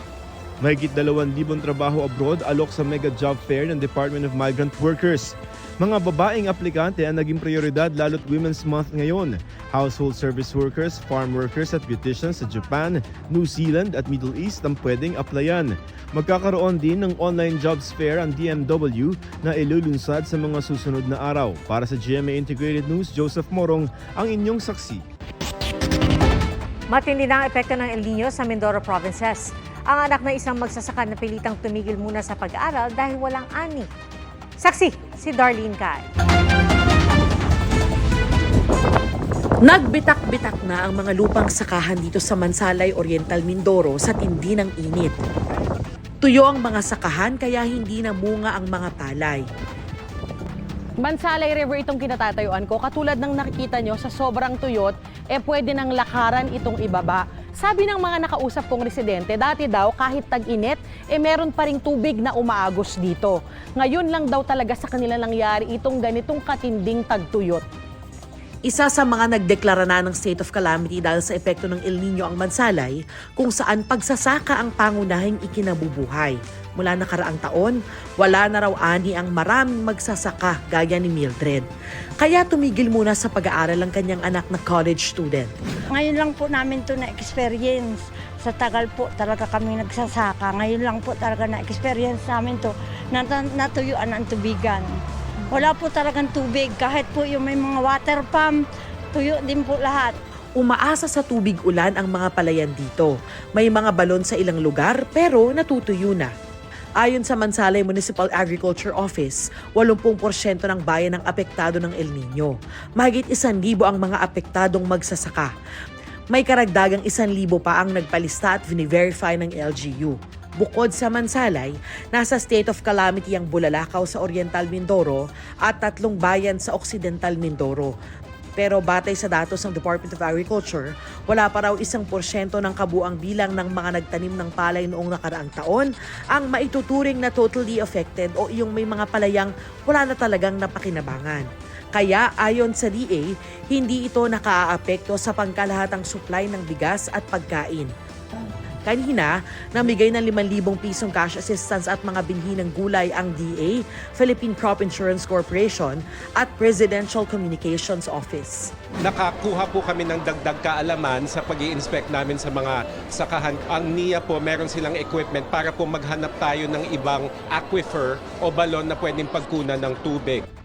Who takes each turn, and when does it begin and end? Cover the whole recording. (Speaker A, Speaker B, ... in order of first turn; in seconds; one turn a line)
Speaker A: 0.6-25.0
Speaker B: 26.9-33.9
Speaker B: 34.6-36.0
Speaker C: 39.6-45.2
Speaker C: 46.2-49.4
Speaker D: 51.0-67.6
Speaker C: 68.7-81.7
Speaker C: 82.2-85.5
Speaker E: 85.9-94.9
Speaker E: 95.5-98.5
Speaker E: 99.1-100.1
Speaker C: 100.6-106.3
Speaker C: 107.0-115.5
Speaker C: 116.3-127.9
Speaker C: 128.6-147.9
Speaker C: 148.8-158.7
Speaker F: 159.0-170.4